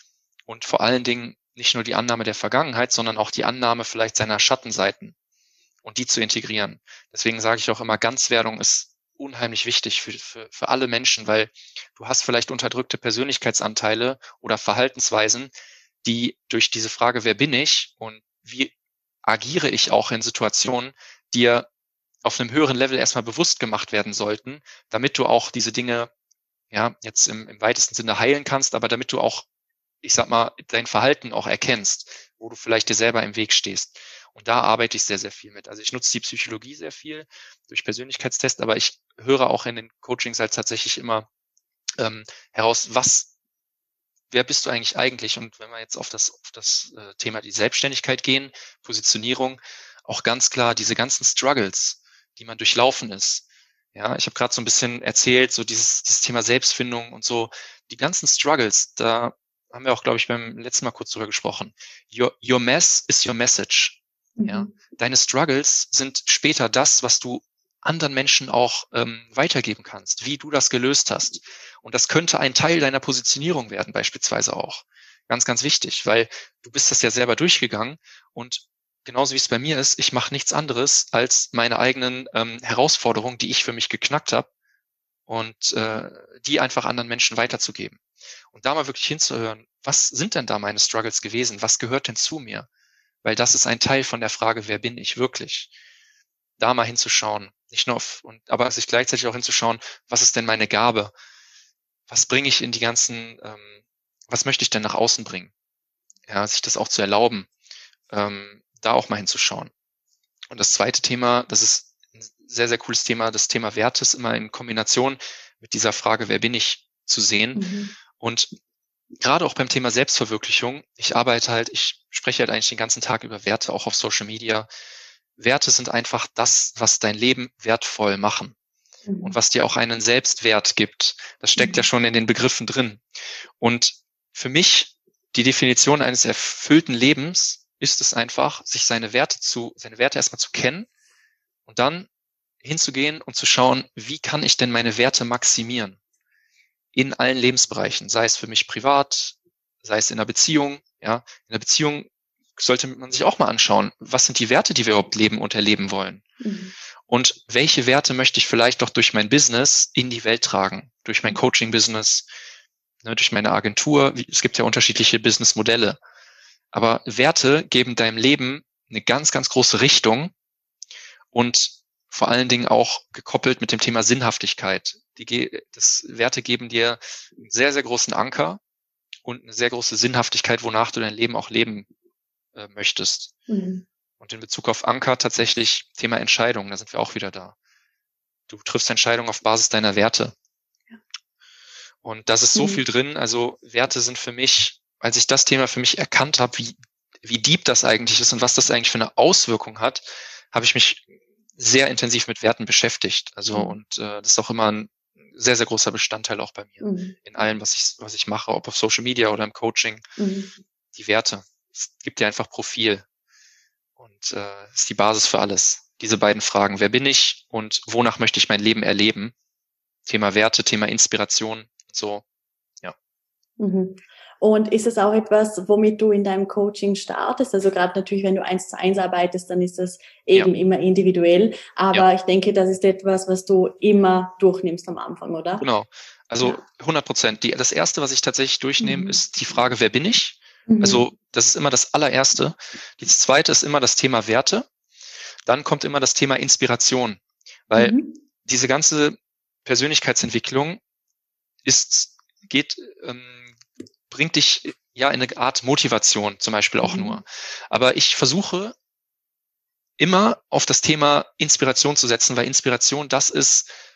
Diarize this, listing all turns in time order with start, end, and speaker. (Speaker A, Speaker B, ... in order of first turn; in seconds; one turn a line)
Speaker A: 0.5-5.1
Speaker A: 5.8-15.5
Speaker A: 16.0-18.7
Speaker A: 19.2-21.7
Speaker A: 22.2-26.1
Speaker A: 26.7-29.5
Speaker A: 30.0-41.3
Speaker A: 42.0-43.3
Speaker A: 44.3-84.5
Speaker B: 64.4-64.7
Speaker A: 85.3-88.0
Speaker A: 88.5-92.7
Speaker A: 93.2-95.7
Speaker A: 96.6-101.1
Speaker A: 102.1-105.5
Speaker A: 106.3-107.5
Speaker A: 108.1-109.7
Speaker A: 110.5-117.7
Speaker B: 117.5-117.9
Speaker A: 118.2-118.5
Speaker A: 119.2-124.7
Speaker A: 125.4-128.6
Speaker B: 129.1-129.4
Speaker A: 129.2-133.0
Speaker B: 131.6-131.8
Speaker A: 133.6-140.9
Speaker A: 141.7-142.1
Speaker A: 142.6-146.0
Speaker A: 146.9-156.2
Speaker B: 156.4-156.7
Speaker A: 157.1-162.3
Speaker A: 163.0-166.0
Speaker A: 166.7-170.3
Speaker A: 171.3-178.6
Speaker A: 179.2-181.9
Speaker A: 182.6-183.3
Speaker B: 183.5-183.9
Speaker A: 184.2-187.6
Speaker A: 188.5-190.3
Speaker A: 192.0-210.0
Speaker B: 192.5-192.8
Speaker B: 203.5-203.8
Speaker B: 206.8-207.2
Speaker B: 210.2-210.5
Speaker A: 210.9-213.1
Speaker A: 214.0-219.3
Speaker A: 220.1-222.2
Speaker B: 223.6-235.7
Speaker A: 235.6-244.7
Speaker B: 238.8-239.2
Speaker B: 240.7-241.1
Speaker A: 245.4-250.8
Speaker B: 247.8-248.2
Speaker A: 251.6-253.5
Speaker A: 254.1-258.8
Speaker B: 256.8-257.2
Speaker A: 260.0-263.7